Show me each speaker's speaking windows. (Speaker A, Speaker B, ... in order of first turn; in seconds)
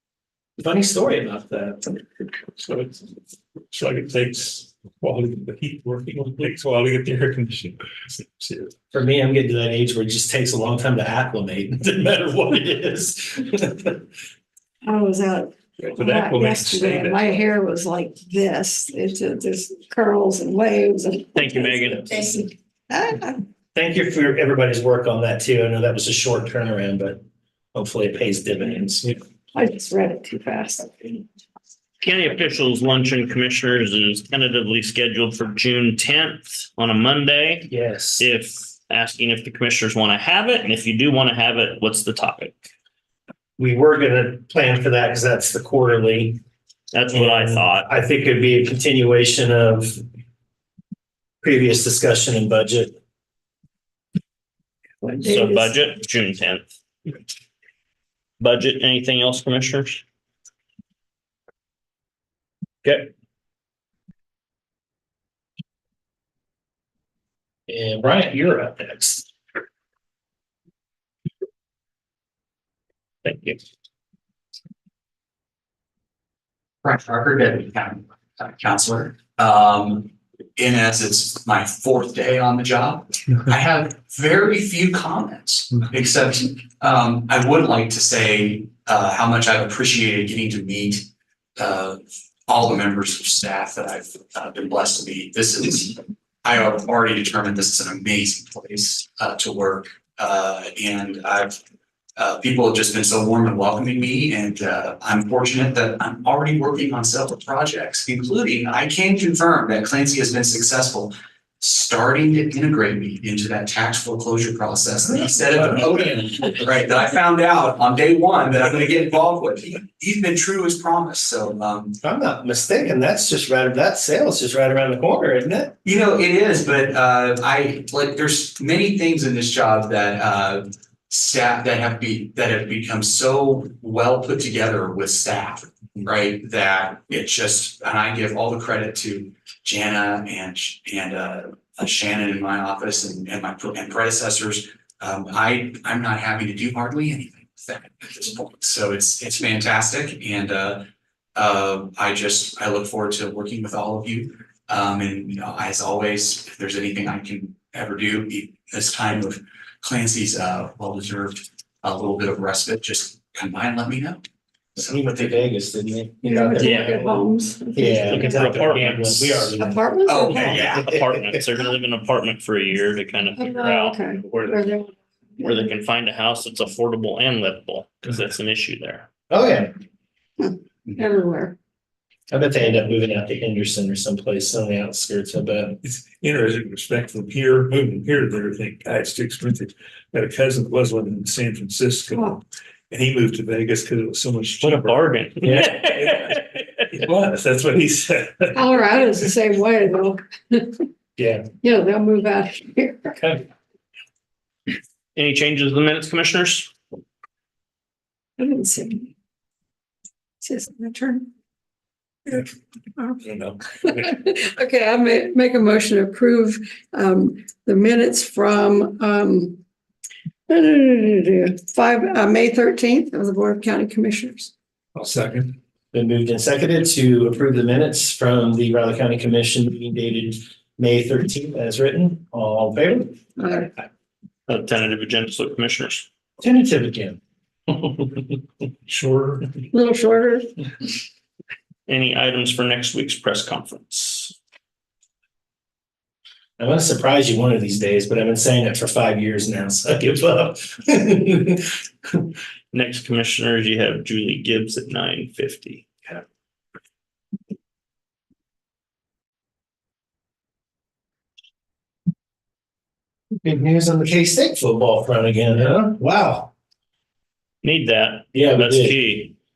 Speaker A: 0.6-1.9, 8.9-14.0, 23.7-27.2, 27.7-29.1, 37.7-38.2, 43.6-46.4, 47.1-50.0, 51.4-52.9, 67.7-69.3, 73.2-73.5, 115.2-116.2, 122.0-125.8, 164.8-169.8, 170.6-171.2, 179.3-179.7, 182.3-185.8, 195.4-195.8, 201.2-201.5, 225.9-233.2, 236.4-238.4, 246.6-251.7, 263.4-266.5, 268.3-269.2
Speaker B: 2.6-3.0, 3.7-8.7, 15.8-17.4, 185.8-195.1, 195.6-196.4, 196.9-198.6, 213.2-214.1, 224.9-225.6, 238.9-239.6
Speaker C: 14.8-23.4, 29.5-31.2, 55.2-55.7, 166.2-168.5, 169.6-170.7, 173.3-175.7, 180.4-181.6, 198.5-200.9, 201.6-203.3, 208.4-209.1, 210.4-211.3, 213.8-219.6, 220.5-224.5, 233.4-233.7, 239.7-240.5
Speaker D: 21.3-22.4, 32.0-42.7, 46.9-47.9, 55.0-56.7, 58.4-60.0, 166.6-166.9, 167.8-169.6, 170.3-174.0, 175.4-179.1, 194.6-196.4, 205.1-206.7, 234.5-236.1, 241.9-244.3, 252.7-255.9, 267.6-269.3
Speaker E: 76.8-101.6, 102.2-122.0, 125.8-150.8, 151.3-164.2, 170.1-171.0